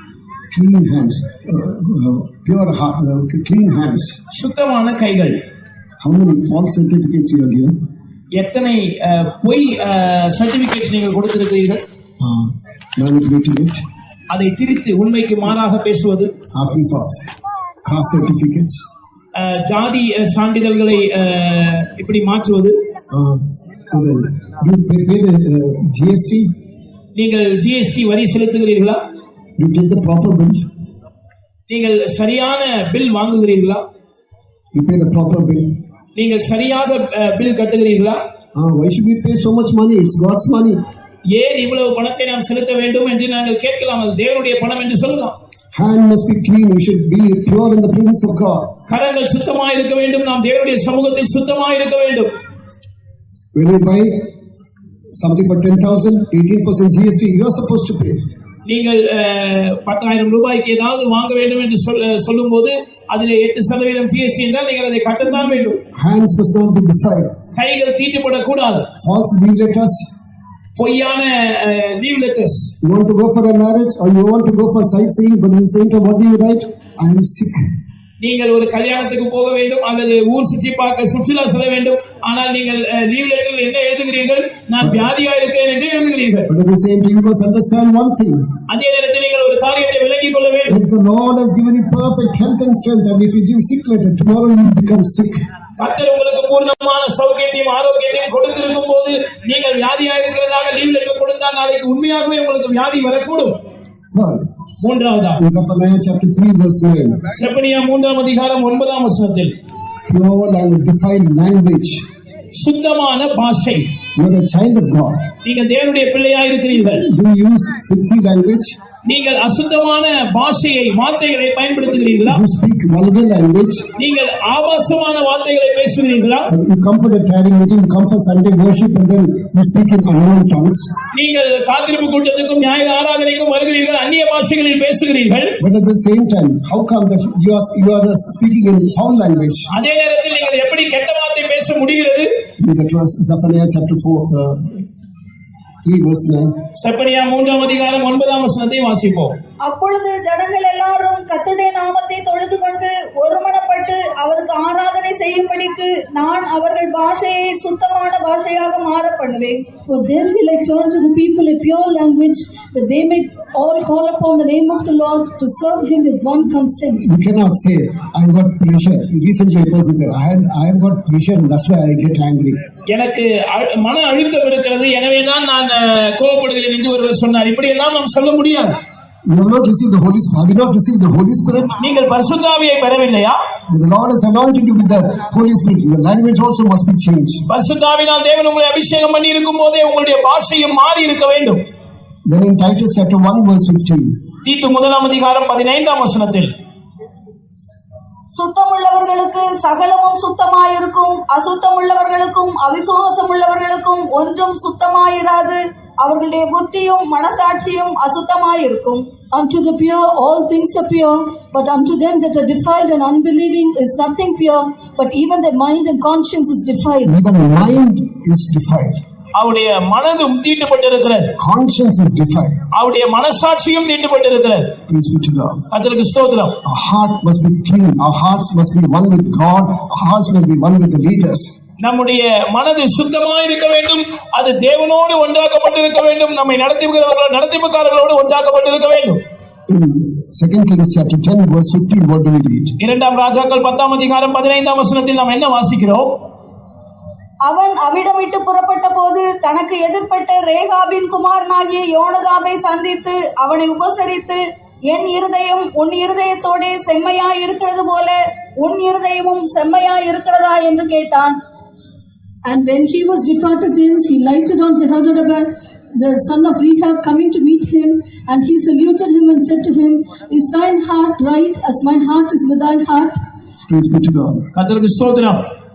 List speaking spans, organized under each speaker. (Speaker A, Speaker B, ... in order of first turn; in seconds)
Speaker A: 0.5-4.2, 6.0-7.8, 12.2-13.8, 16.5-17.2, 17.9-18.8, 23.1-26.5, 29.6-30.7, 34.7-35.8, 38.5-40.8, 45.7-48.7, 53.5-54.3, 55.2-58.2, 65.9-67.3, 69.0-70.1, 72.8-77.6, 86.5-88.5, 90.7-95.4, 104.1-104.5, 105.4-107.3, 110.1-112.0, 114.2-115.3, 116.9-118.8, 122.3-123.9, 126.5-130.9, 135.6-139.7, 142.6-144.9, 145.8-146.6, 167.0-172.6, 179.3-181.8, 183.7-187.5, 192.3-194.2, 217.1-219.0, 221.4-222.6, 224.9-225.6, 226.6-231.5, 239.7-242.8, 273.7-274.5
Speaker B: 4.3-5.4, 8.3-11.8, 14.3-16.3, 19.4-22.8, 27.1-29.0, 31.7-33.8, 36.2-38.2, 41.3-45.4, 48.9-52.3, 58.7-65.8, 67.5-68.9, 70.8-72.8, 78.2-86.5, 88.7-90.8, 95.8-103.5, 104.8-105.4, 107.3-109.5, 112.5-113.9, 115.4-117.1, 119.0-122.4, 124.0-126.5, 131.1-135.6, 139.7-142.3, 146.8-149.4, 172.9-178.7, 181.8-183.4, 187.5-191.6, 194.4-196.5, 219.4-221.3, 222.7-224.8, 225.7-226.6, 231.8-239.2, 242.8-246.2, 274.5-275.5
Speaker C: 149.6-159.7, 198.3-209.1, 247.4-261.4
Speaker D: 159.9-167.1, 209.3-217.1, 262.4-273.2